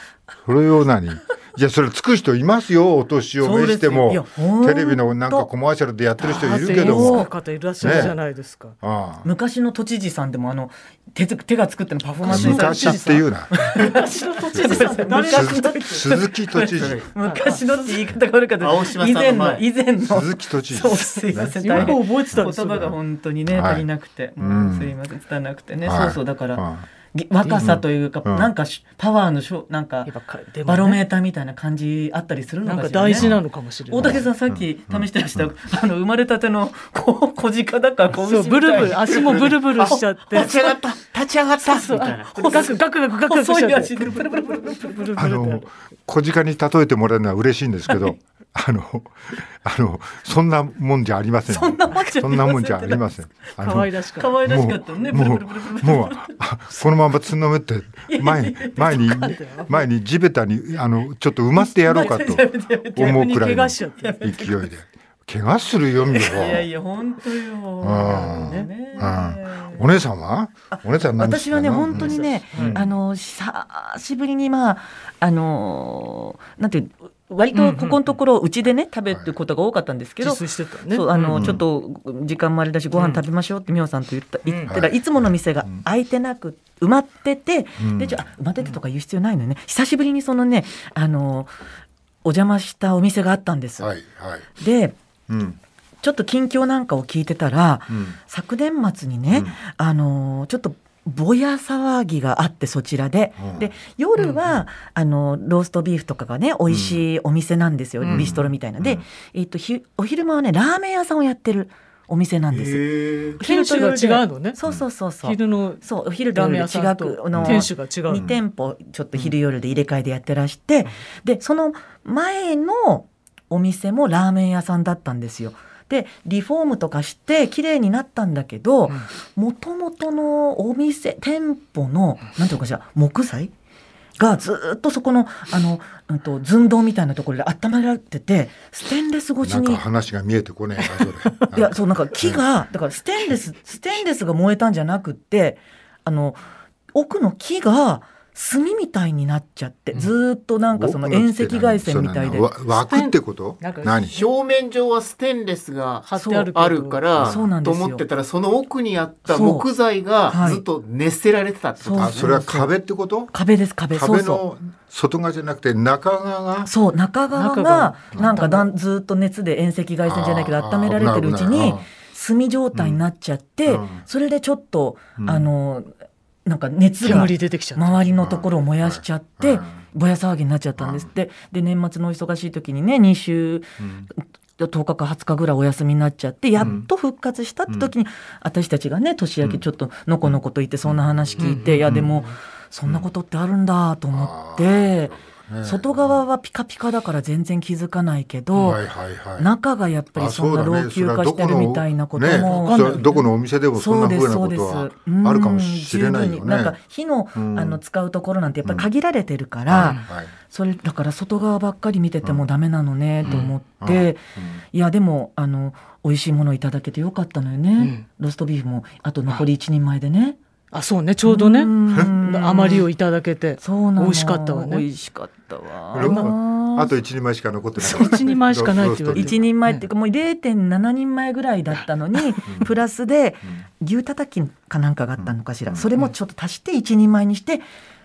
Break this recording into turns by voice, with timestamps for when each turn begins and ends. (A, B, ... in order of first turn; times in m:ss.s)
0:00.4-0:08.2 A
0:03.4-0:05.5 B
0:06.2-0:08.8 C
0:06.6-0:07.3 B
0:07.8-0:08.1 B
0:08.8-0:09.3 A
0:09.2-0:30.1 B
0:12.2-0:16.1 C
0:12.3-0:13.5 A
0:14.5-0:17.0 A
0:16.8-0:17.1 D
0:17.2-0:18.0 C
0:18.6-0:19.6 D
0:20.0-0:23.8 A
0:21.3-0:22.9 C
0:24.4-0:25.0 A
0:25.8-0:26.8 A
0:27.6-0:28.5 A
0:30.0-0:31.0 C
0:30.6-0:33.4 B
0:32.6-0:34.3 C
0:33.2-0:33.4 A
0:33.9-0:40.4 B
0:34.0-0:35.5 A
0:38.1-0:40.5 C
0:39.1-0:42.7 D
0:41.7-0:45.6 C
0:42.3-0:42.7 B
0:43.3-0:45.0 B
0:45.2-1:06.7 A
0:51.5-0:53.1 B
0:53.6-0:54.4 C
0:54.2-0:56.3 B
0:58.1-0:59.6 B
0:58.8-0:59.8 C
1:01.5-1:03.4 B
1:03.0-1:04.2 C
1:04.0-1:04.6 B
1:06.1-1:09.9 B
1:07.8-1:12.9 A
1:08.1-1:08.7 C
1:10.7-1:31.5 B
1:11.9-1:12.8 C
1:17.5-1:18.0 C
1:20.2-1:21.6 C
1:21.3-1:21.6 A
1:22.9-1:23.2 C
1:24.4-1:24.8 C
1:24.7-1:25.8 A
1:27.8-1:28.2 A
1:32.2-1:33.9 B
1:33.8-1:34.5 A
1:34.6-1:35.0 B
1:35.3-1:35.6 A
1:36.0-1:52.8 B
1:37.9-1:38.2 A
1:43.4-1:43.7 A
1:46.7-1:47.0 A
1:48.0-1:48.3 C
1:48.1-1:49.0 A
1:52.5-1:53.4 D
1:53.4-2:13.5 B
1:53.4-1:54.6 C
1:55.2-1:58.3 C
1:57.3-1:58.4 A
2:14.2-2:19.8 B
2:19.4-2:22.4 A
2:21.5-2:26.4 B
2:26.9-2:32.5 B
2:30.7-2:34.1 A
2:32.7-2:34.2 C
2:34.1-2:42.4 D
2:36.1-2:37.0 C
2:36.2-2:36.5 B
2:37.2-2:38.0 B
2:39.3-2:39.6 B
2:40.3-2:40.6 B
2:41.8-2:42.7 B
2:42.0-2:43.3 A
2:43.3-2:44.4 B
2:43.9-2:46.7 A
2:46.6-2:55.9 B
2:47.3-2:48.7 C
2:50.0-2:51.9 A
2:52.7-2:53.0 A
2:53.7-2:54.0 A
2:55.2-2:55.5 A
2:56.4-3:18.8 B
2:57.0-2:58.1 C
2:58.1-2:59.8 A
3:00.8-3:01.1 A
3:03.8-3:04.1 A
3:06.6-3:06.9 A
3:10.2-3:12.2 A
3:11.4-3:11.8 C
3:14.1-3:16.2 A
3:18.6-3:19.5 A
3:19.4-3:23.1 B
3:20.2-3:26.8 A
3:22.3-3:23.2 C
3:23.7-3:40.4 B
3:27.3-3:27.8 A
3:29.7-3:30.3 A
3:29.8-3:30.0 C
3:33.2-3:34.6 A
3:33.2-3:33.5 C
3:37.8-3:38.0 C
3:40.7-3:44.8 C
3:41.2-3:42.9 B
3:43.6-3:46.9 B
3:45.9-3:49.5 A
3:45.9-3:46.3 C
3:47.8-3:49.9 C
3:49.1-3:57.6 B
3:55.2-3:55.9 A